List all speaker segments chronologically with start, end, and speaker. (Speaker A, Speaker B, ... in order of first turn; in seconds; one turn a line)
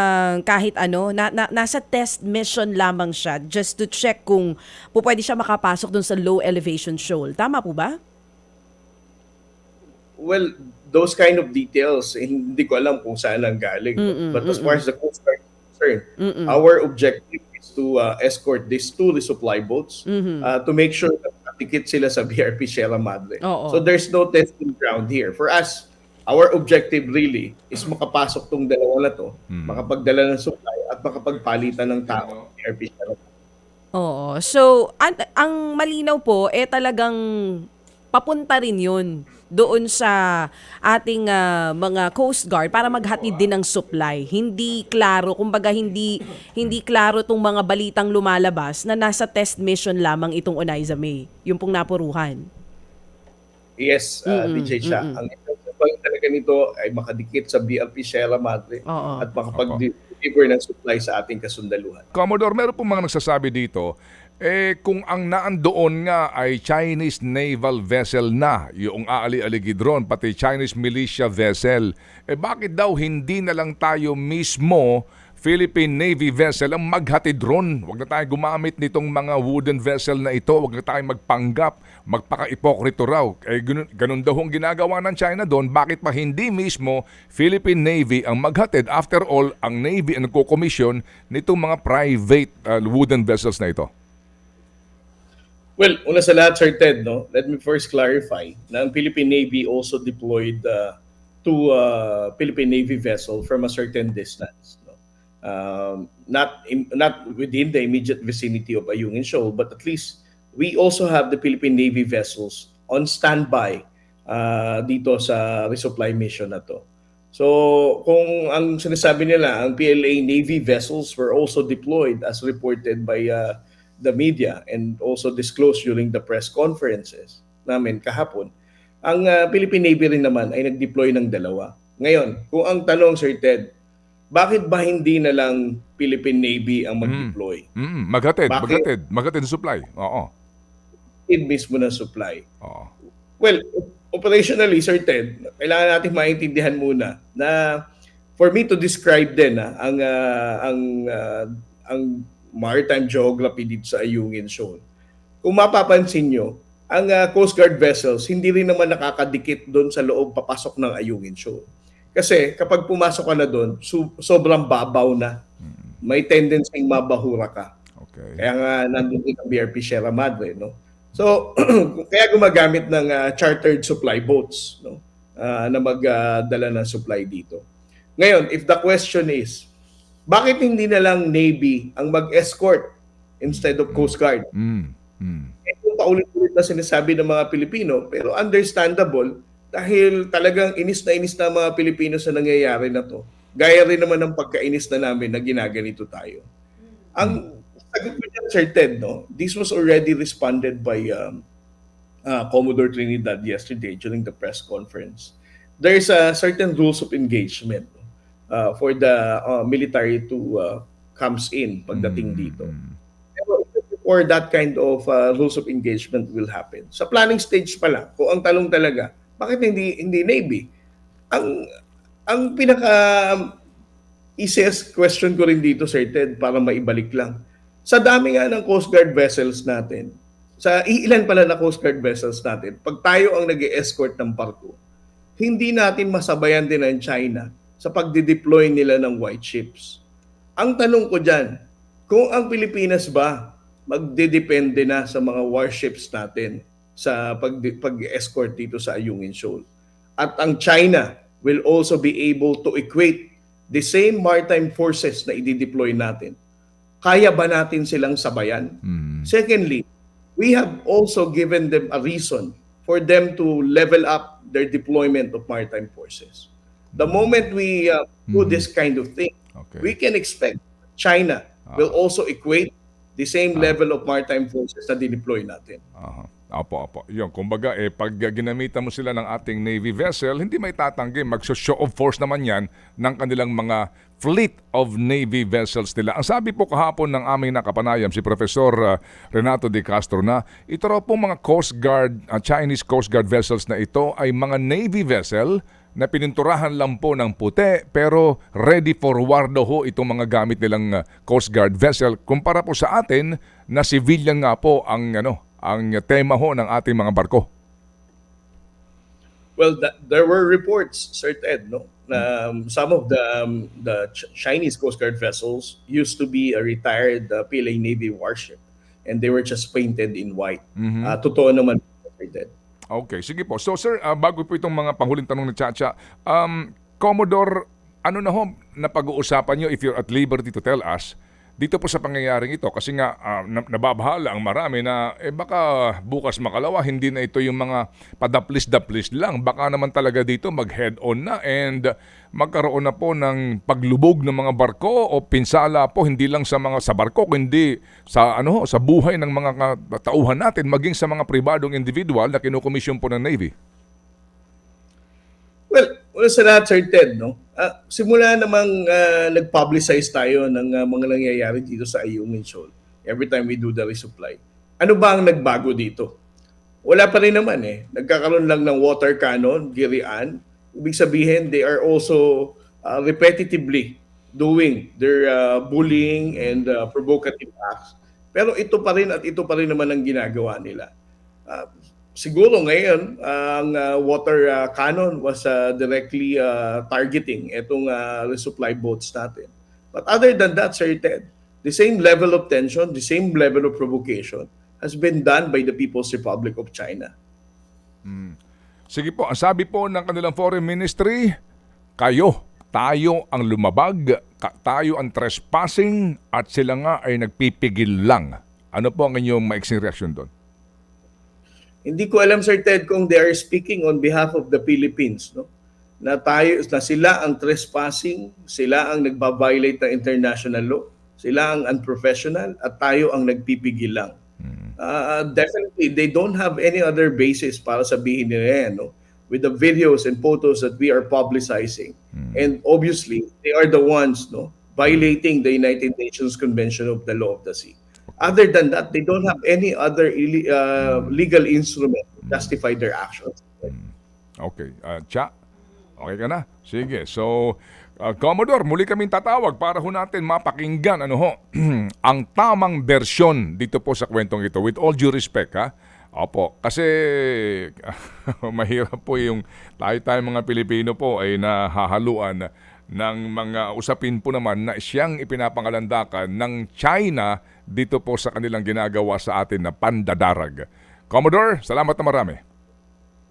Speaker A: 0.3-7.9
Speaker B: 10.2-33.2
Speaker A: 14.0-14.8
Speaker A: 16.2-16.6
Speaker A: 20.1-20.5
Speaker A: 23.4-23.8
Speaker C: 29.5-29.8
Speaker A: 34.0-37.1
Speaker A: 38.1-40.1
Speaker A: 40.9-52.5
Speaker B: 53.8-62.0
Speaker A: 54.3-55.2
Speaker A: 58.9-59.3
Speaker C: 59.5-59.8
Speaker C: 62.1-63.9
Speaker C: 64.4-93.9
Speaker B: 95.8-128.5
Speaker B: 129.1-133.7
Speaker B: 134.3-137.6
Speaker C: 137.0-140.3
Speaker B: 138.5-138.8
Speaker B: 141.3-142.4
Speaker C: 142.6-142.9
Speaker B: 143.4-147.8
Speaker B: 148.4-154.8
Speaker B: 155.4-161.6
Speaker B: 162.1-165.3
Speaker B: 166.0-167.7
Speaker C: 168.0-168.4
Speaker B: 168.4-177.6
Speaker B: 178.2-179.7
Speaker B: 180.3-182.8
Speaker B: 183.4-184.5
Speaker C: 183.9-185.5
Speaker B: 185.7-196.4
Speaker B: 197.1-201.4
Speaker B: 202.3-212.7
Speaker C: 211.9-213.0
Speaker B: 213.3-220.7
Speaker B: 221.3-221.6
Speaker B: 222.3-223.5
Speaker B: 224.4-227.3
Speaker B: 227.9-234.8
Speaker B: 235.4-240.0
Speaker B: 240.6-241.5
Speaker B: 242.1-249.6
Speaker B: 250.2-256.3
Speaker B: 257.0-259.9
Speaker C: 258.9-259.3
Speaker B: 260.4-275.8
Speaker C: 266.9-267.3
Speaker C: 268.3-268.6
Speaker C: 269.6-269.9
Speaker C: 276.0-307.5
Speaker B: 309.6-322.5
Speaker C: 320.8-321.1
Speaker C: 322.9-327.5
Speaker C: 328.1-353.5
Speaker B: 355.7-366.1
Speaker B: 366.8-380.9
Speaker B: 381.5-397.1
Speaker C: 398.1-398.4
Speaker C: 398.9-401.3
Speaker C: 402.0-410.3
Speaker B: 411.9-415.5
Speaker B: 416.0-424.1
Speaker B: 424.8-443.7
Speaker C: 444.4-445.3
Speaker C: 446.0-462.4
Speaker C: 462.9-472.4